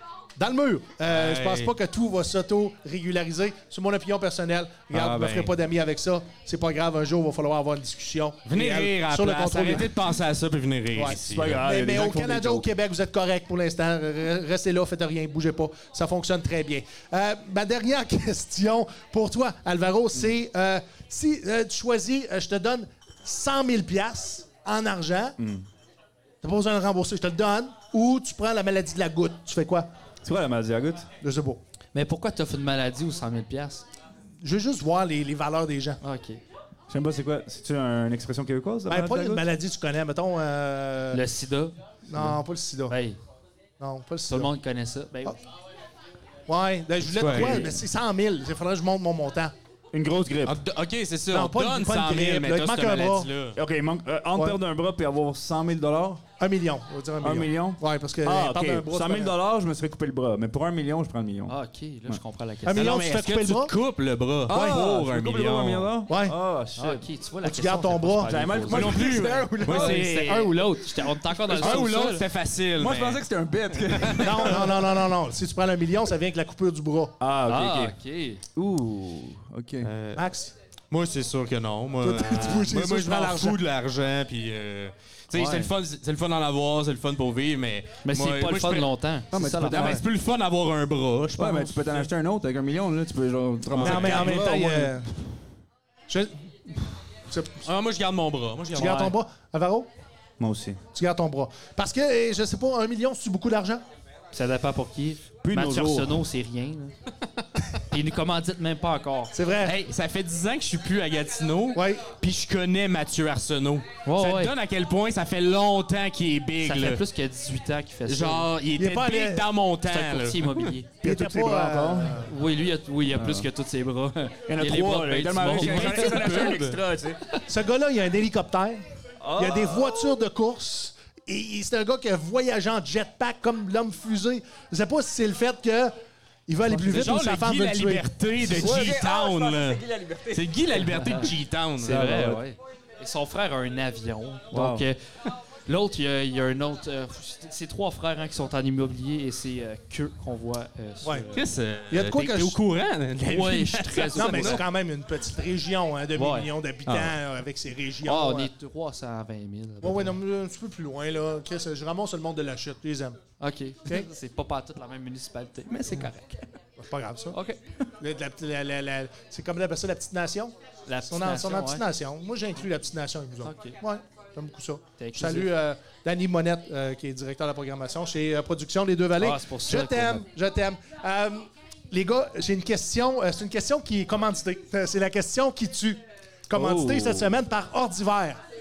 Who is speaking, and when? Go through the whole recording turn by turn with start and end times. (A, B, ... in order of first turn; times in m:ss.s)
0:00.4-0:09.9 A
0:01.1-0:01.7 B
0:04.9-0:05.5 B
0:08.5-0:11.6 B
0:10.9-0:25.4 A
0:11.0-0:12.6 C
0:25.4-0:25.6 C
0:26.4-0:29.9 A
0:30.2-0:31.1 C
0:31.2-0:31.6 A
0:31.9-0:33.8 D
0:34.4-0:36.0 A
0:36.0-0:36.4 D
0:36.9-0:39.4 C
0:38.9-0:41.2 A
0:41.1-0:41.8 D
0:42.0-0:43.0 A
0:42.9-0:43.2 D
0:43.8-0:44.5 A
0:44.3-0:45.4 D
0:46.5-0:49.5 A
0:47.0-0:47.7 B
0:49.9-0:50.6 C
0:50.4-0:53.6 B
0:51.3-0:53.3 A
0:53.6-0:56.2 C
0:56.4-0:59.3 A
0:57.2-1:01.6 C
1:01.5-1:03.0 D
1:02.6-1:03.7 A
1:02.7-1:05.9 B
1:04.5-1:07.1 C
1:04.5-1:04.8 A
1:06.1-1:06.4 A
1:06.8-1:09.1 D
1:07.4-1:08.4 A
1:08.2-1:10.6 C
1:08.6-1:10.5 B
1:09.6-1:12.2 D
1:11.4-1:11.8 C
1:11.5-1:14.7 B
1:12.8-1:14.9 C
1:14.2-1:17.2 A
1:17.2-1:17.9 C
1:17.5-1:18.4 D
1:18.6-1:19.9 C
1:19.8-1:20.2 B
1:20.1-1:20.5 A
1:20.9-1:28.9 B
1:22.0-1:23.6 A
1:25.3-1:25.7 D
1:28.0-1:30.0 D
1:29.3-1:30.0 C
1:29.6-1:32.1 B
1:31.4-1:35.0 C
1:33.7-1:34.4 B
1:33.8-1:35.1 A
1:36.1-1:37.7 A
1:37.6-1:39.1 B
1:38.7-1:39.9 A
1:38.8-1:39.1 D
1:40.4-1:40.8 C
1:40.9-1:43.8 A
1:44.3-1:46.9 D
1:45.4-1:46.2 C
1:47.8-1:49.3 D
1:49.3-1:49.8 A
1:49.6-1:57.0 B
1:51.7-1:52.1 A
1:54.0-1:54.5 D
1:56.6-1:58.5 D
1:58.1-2:00.7 B
1:58.8-1:59.4 A
1:59.9-2:00.9 D
2:01.0-2:02.3 C
2:01.0-2:02.3 A
2:02.1-2:06.5 D
2:03.1-2:03.5 C
2:04.5-2:07.2 C
2:05.4-2:06.8 B
2:07.5-2:08.8 A
2:09.2-2:10.1 C
2:09.3-2:15.9 A
2:16.5-2:18.5 A
2:16.8-2:22.0 B
2:18.4-2:20.8 C
2:20.8-2:25.0 D
2:21.8-2:22.4 C
2:24.5-2:24.8 C
2:25.7-2:31.4 D
2:31.0-2:31.3 A
2:31.3-2:34.6 B
2:31.9-2:32.6 A
2:33.2-2:34.6 D
2:34.1-2:38.5 A
2:36.2-2:36.5 D
2:36.8-2:37.2 B
2:38.0-2:40.2 D
2:39.8-2:43.2 A
2:43.4-2:46.5 D
2:46.8-2:47.4 A
2:47.3-2:47.9 D
2:48.0-2:50.5 A
2:50.9-2:51.8 D
2:51.0-3:08.4 A
2:53.4-2:53.8 D
2:55.0-2:55.5 D
2:59.2-3:00.2 D
3:06.5-3:07.4 C